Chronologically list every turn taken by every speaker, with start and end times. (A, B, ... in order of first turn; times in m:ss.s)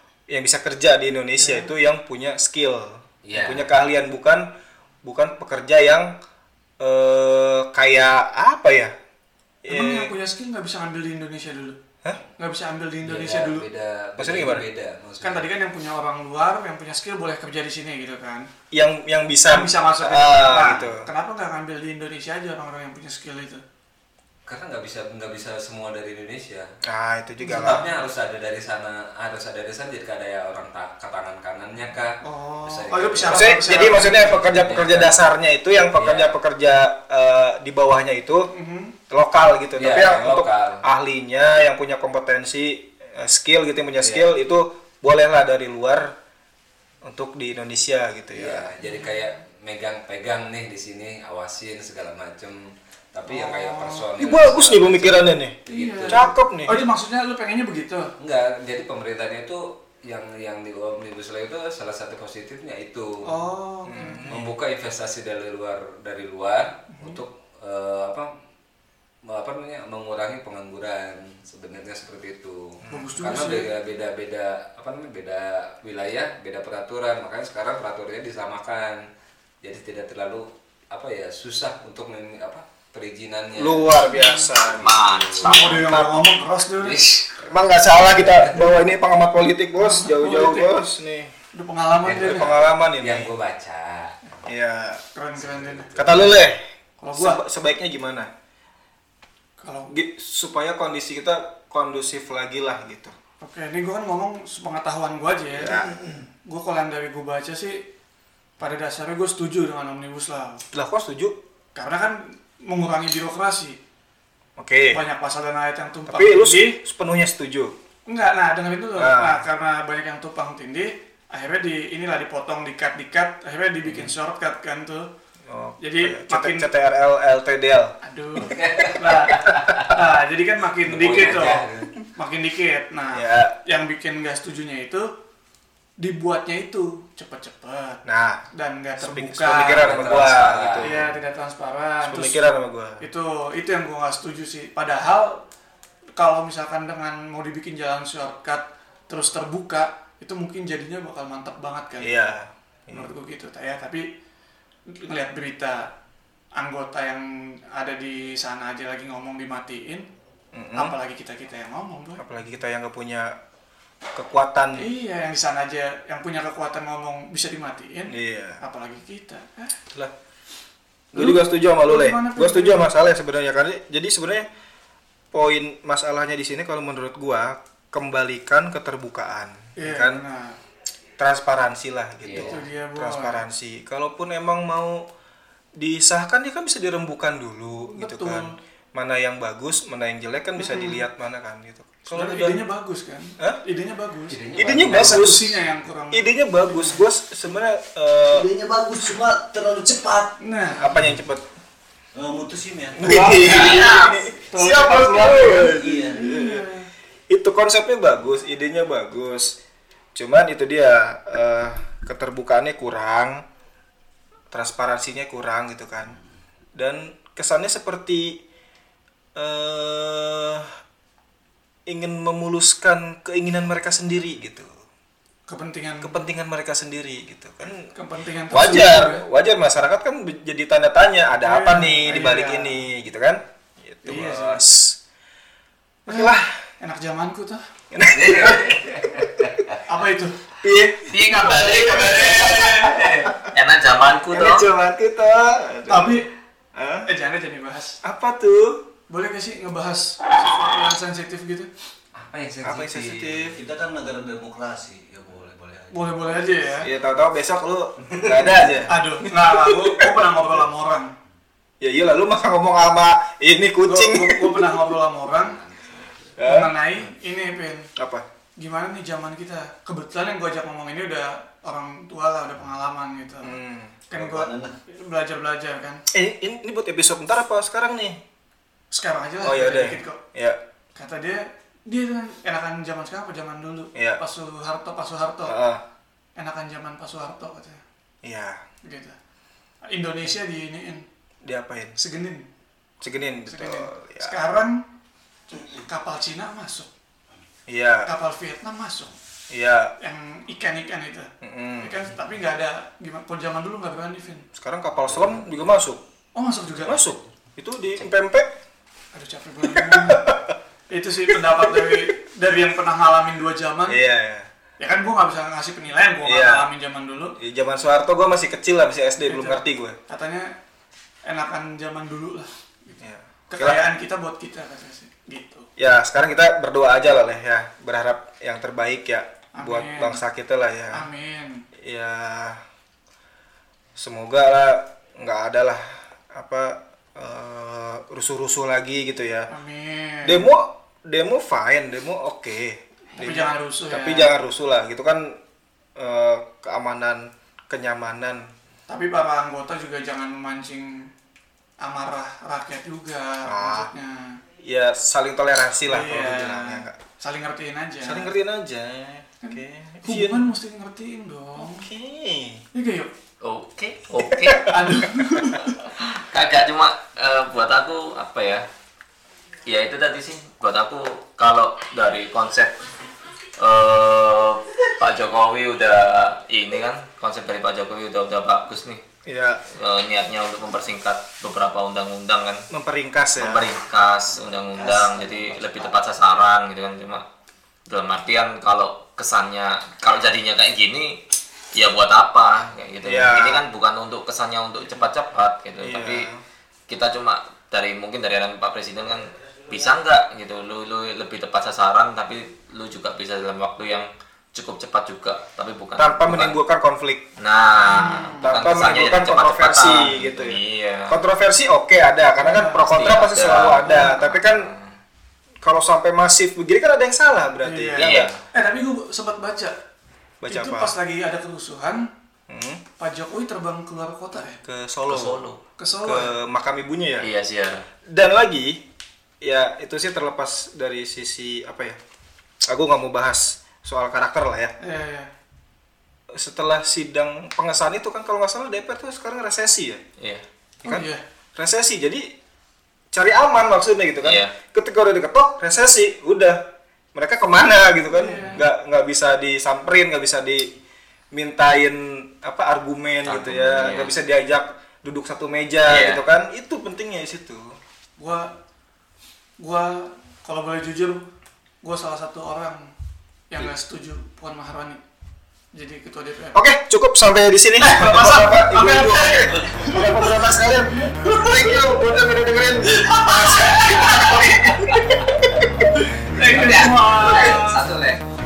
0:00.3-0:04.5 A
0:01.4-0:01.7 B
0:03.2-0:03.7 C
0:05.0-0:06.1 A
0:06.8-0:08.9 A
0:09.6-0:10.1 A
0:09.7-0:11.8 B
0:12.4-0:13.6 B
0:13.0-0:15.5 C
0:14.2-0:14.7 A
0:15.2-0:18.5 B
0:18.7-0:21.1 A
0:19.5-0:23.6 B
0:24.4-0:26.7 C
0:26.8-0:27.9 A
0:27.4-0:35.2 C
0:32.2-0:34.4 B
0:33.3-0:38.5 A
0:35.9-0:36.4 C
0:38.5-0:39.0 B
0:39.1-0:46.1 A
0:39.8-0:40.9 C
0:44.0-0:44.3 C
0:47.0-0:48.7 A
0:48.3-0:56.3 C
0:53.2-0:54.1 B
0:54.2-0:56.9 A
0:55.6-0:58.1 B
0:58.2-1:03.2 C
1:03.2-1:04.3 B
1:03.9-1:04.6 A
1:04.0-1:08.3 C
1:06.9-1:07.2 B
1:09.2-1:19.0 C
1:12.9-1:13.7 B
1:19.6-1:25.8 C
1:23.6-1:26.2 A
1:24.1-1:24.5 B
1:24.8-1:25.5 D
1:25.4-1:27.3 B
1:26.8-1:28.7 C
1:27.5-1:31.3 A
1:29.8-1:30.7 B
1:31.5-1:32.6 B
1:32.0-1:34.4 C
1:32.2-1:33.3 A
1:34.4-1:35.0 A
1:35.1-1:35.9 B
1:35.4-1:36.4 C
1:36.0-1:36.6 A
1:37.0-1:37.4 B
1:37.2-1:38.3 A
1:39.6-1:39.9 B
1:39.9-1:43.1 A
1:43.4-1:47.8 B
1:45.5-1:46.2 A
1:48.6-1:50.6 B
1:50.7-1:51.4 A
1:51.7-1:53.8 B
1:54.6-1:55.0 A
1:54.9-1:56.8 B
1:56.1-1:57.7 A
1:58.1-2:05.1 B
1:59.0-1:59.4 A
2:05.5-2:07.9 A
2:05.8-2:06.7 B
2:08.0-2:11.6 B
2:08.4-2:10.0 C
2:10.8-2:11.9 C
2:12.2-2:15.1 B
2:13.1-2:13.5 A
2:16.0-2:20.0 B
2:18.0-2:18.4 A
2:19.0-2:21.1 A
2:19.5-2:21.0 C
2:20.8-2:22.5 B
2:22.0-2:23.0 A
2:23.0-2:25.4 B
2:26.2-2:32.1 B
2:32.0-2:33.1 A
2:32.9-2:34.0 B
2:35.0-2:35.9 B
2:36.6-2:40.1 B
2:40.5-2:40.9 A
2:40.8-2:42.2 B
2:42.2-2:43.4 A
2:44.1-2:44.9 A
2:44.8-2:49.8 B
2:48.1-2:48.6 A
2:51.1-2:54.5 A
2:51.2-2:52.9 B
2:55.3-3:00.2 A
2:59.8-3:00.6 B
3:01.2-3:05.0 A
3:02.2-3:02.6 C
3:02.4-3:03.4 B
3:05.8-3:12.6 A
3:07.9-3:08.5 B
3:10.6-3:11.0 B
3:12.1-3:17.0 B
3:14.3-3:15.4 E
3:14.5-3:15.5 A
3:16.1-3:18.5 A
3:18.3-3:20.4 E
3:20.4-3:20.8 B
3:20.8-3:21.4 A
3:22.1-3:24.0 E
3:23.0-3:26.6 A
3:23.0-3:26.9 B
3:25.6-3:26.3 E
3:27.3-3:29.6 A
3:30.1-3:33.4 A
3:34.5-3:36.1 A
3:36.8-3:38.4 A
3:39.4-3:40.7 A
3:41.9-3:44.7 A
3:45.5-3:46.2 B
3:46.0-3:47.9 A
3:47.9-3:49.2 B
3:48.5-3:55.0 A
3:51.4-3:52.8 B
3:54.0-3:54.6 B
3:56.0-3:57.6 B
3:56.1-3:56.6 A
3:57.9-3:59.0 A
3:58.2-3:59.6 C
3:59.8-4:00.4 B
4:00.6-4:03.4 A
4:01.0-4:04.6 D
4:04.3-4:06.2 A
4:05.9-4:06.3 B
4:06.7-4:07.1 A
4:07.0-4:08.0 B
4:08.0-4:08.8 A
4:09.1-4:11.7 B
4:12.2-4:13.6 C
4:12.2-4:12.7 E
4:12.6-4:13.6 A
4:13.5-4:16.5 E
4:15.9-4:16.9 B
4:16.8-4:20.1 A
4:18.1-4:18.5 E
4:18.8-4:21.1 B
4:21.8-4:24.7 A
4:23.8-4:25.6 B
4:25.4-4:26.1 C
4:26.4-4:26.7 A
4:26.4-4:27.9 B
4:28.0-4:28.2 A
4:28.6-4:33.5 B
4:33.4-4:34.0 A
4:34.1-4:36.0 B
4:34.1-4:34.7 E
4:36.1-4:38.2 A
4:38.9-4:40.2 B
4:39.4-4:40.6 A
4:41.0-4:45.5 B
4:43.9-4:44.2 A
4:45.4-4:45.8 A
4:46.4-4:47.8 B
4:48.2-4:48.6 A
4:48.8-4:49.2 B
4:49.9-4:51.0 B
4:51.4-4:52.0 A
4:52.0-4:52.4 B
4:53.0-4:54.4 A
4:53.5-4:54.8 B
4:55.5-4:56.9 B
4:57.7-4:58.1 A
4:58.0-4:59.2 B
4:59.5-4:59.9 A
5:00.0-5:04.4 B
5:01.4-5:01.9 A
5:04.5-5:06.0 A
5:06.3-5:07.0 B
5:06.8-5:08.5 A
5:09.1-5:10.2 B
5:09.6-5:10.5 A
5:10.9-5:14.0 B
5:11.5-5:12.1 A
5:13.9-5:14.5 A
5:14.8-5:17.4 B
5:16.2-5:16.7 A
5:17.4-5:20.0 A
5:19.3-5:20.5 B
5:21.2-5:23.0 B
5:23.0-5:23.8 A
5:23.5-5:25.7 B
5:25.8-5:31.1 A
5:29.5-5:30.2 B
5:30.9-5:31.6 B
5:31.8-5:32.6 A
5:34.0-5:39.5 A
5:39.5-5:40.5 B
5:40.2-5:45.4 A
5:43.1-5:44.3 B
5:46.0-5:48.5 A
5:48.9-5:51.1 B
5:51.8-5:54.4 B
5:53.5-5:53.9 A
5:54.6-5:57.0 A
5:55.9-5:58.3 B
5:58.0-6:00.5 A
5:59.4-6:01.9 B
6:01.6-6:02.6 A
6:02.7-6:03.1 B
6:03.4-6:04.7 D
6:04.2-6:05.5 A
6:04.7-6:05.8 B
6:05.8-6:08.7 D
6:09.6-6:12.8 D
6:13.6-6:19.0 D
6:19.2-6:19.6 A
6:19.7-6:22.6 D
6:22.7-6:23.7 A
6:23.4-6:27.2 D
6:24.3-6:26.1 E
6:27.9-6:31.2 D
6:31.7-6:36.3 D
6:33.0-6:33.6 A
6:35.8-6:36.4 A
6:36.9-6:46.6 D
6:46.0-6:47.2 A
6:47.4-6:51.2 D
6:47.9-6:48.5 B
6:47.9-6:54.7 A
6:52.4-6:52.8 B
6:52.9-6:54.9 D
6:55.6-6:58.3 A
6:57.6-6:59.8 B
6:58.0-6:58.4 D
7:00.4-7:00.9 A
7:00.5-7:02.1 B
7:02.5-7:02.8 A
7:03.0-7:04.6 B
7:04.6-7:05.4 A
7:05.1-7:05.6 D
7:05.8-7:06.3 B
7:06.0-7:07.3 A
7:07.2-7:07.8 D
7:08.1-7:08.8 A
7:09.4-7:12.0 A
7:12.6-7:14.7 A
7:14.8-7:15.3 B
7:16.3-7:20.0 A
7:20.2-7:20.4 D
7:20.8-7:22.3 A
7:20.8-7:21.2 B
7:23.1-7:30.7 A
7:24.2-7:24.5 D
7:28.1-7:28.6 B
7:31.3-7:37.8 A
7:33.2-7:34.2 D
7:35.9-7:36.2 D
7:38.2-7:38.6 B
7:39.6-7:41.3 B
7:41.8-7:42.9 B
7:43.5-7:45.0 B
7:45.7-7:46.6 B
7:46.5-7:56.1 A
7:47.8-7:50.3 B
7:51.0-7:51.9 B
7:53.0-7:54.8 B
7:53.9-7:55.0 D
7:56.3-7:57.8 B
7:56.4-7:58.2 D